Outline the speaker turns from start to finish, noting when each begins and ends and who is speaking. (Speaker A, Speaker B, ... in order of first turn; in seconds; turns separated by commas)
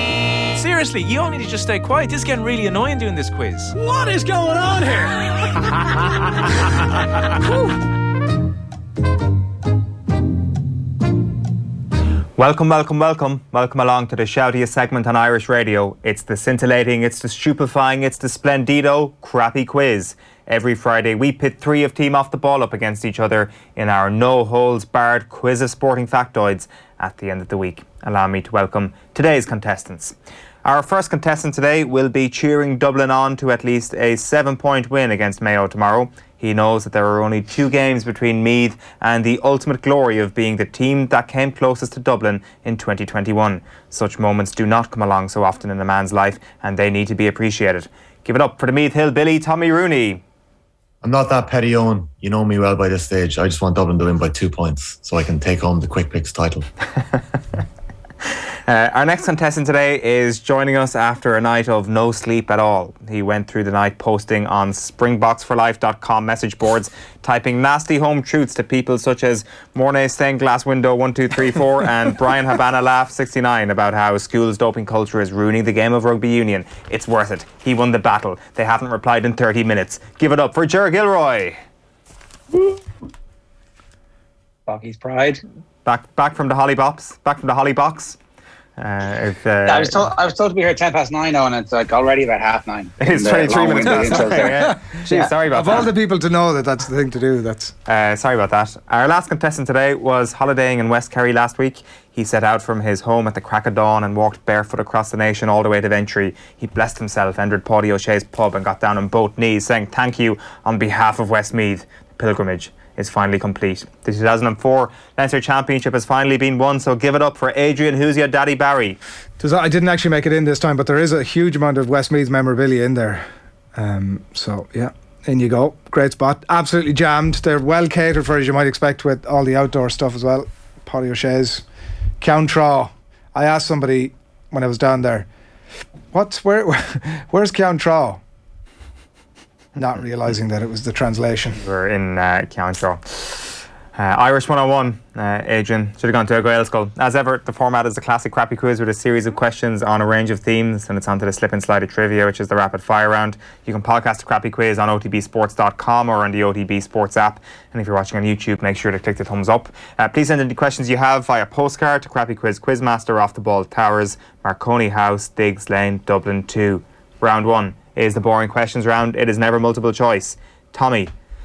Speaker A: 0.5-5.2, Speaker B: 12.3-50.2, Speaker C: 51.0-56.7, Speaker B: 58.7-81.6, Speaker D: 84.7-85.4, Speaker B: 85.8-88.2, Speaker B: 88.8-90.0, Speaker D: 89.6-95.8, Speaker B: 93.0-95.9, Speaker E: 93.8-97.7, Speaker B: 97.9-119.0, Speaker E: 119.4-123.2, Speaker E: 123.7-131.6, Speaker E: 132.2-135.3, Speaker E: 136.1-138.2, Speaker E: 139.8-141.6, Speaker B: 141.6-171.1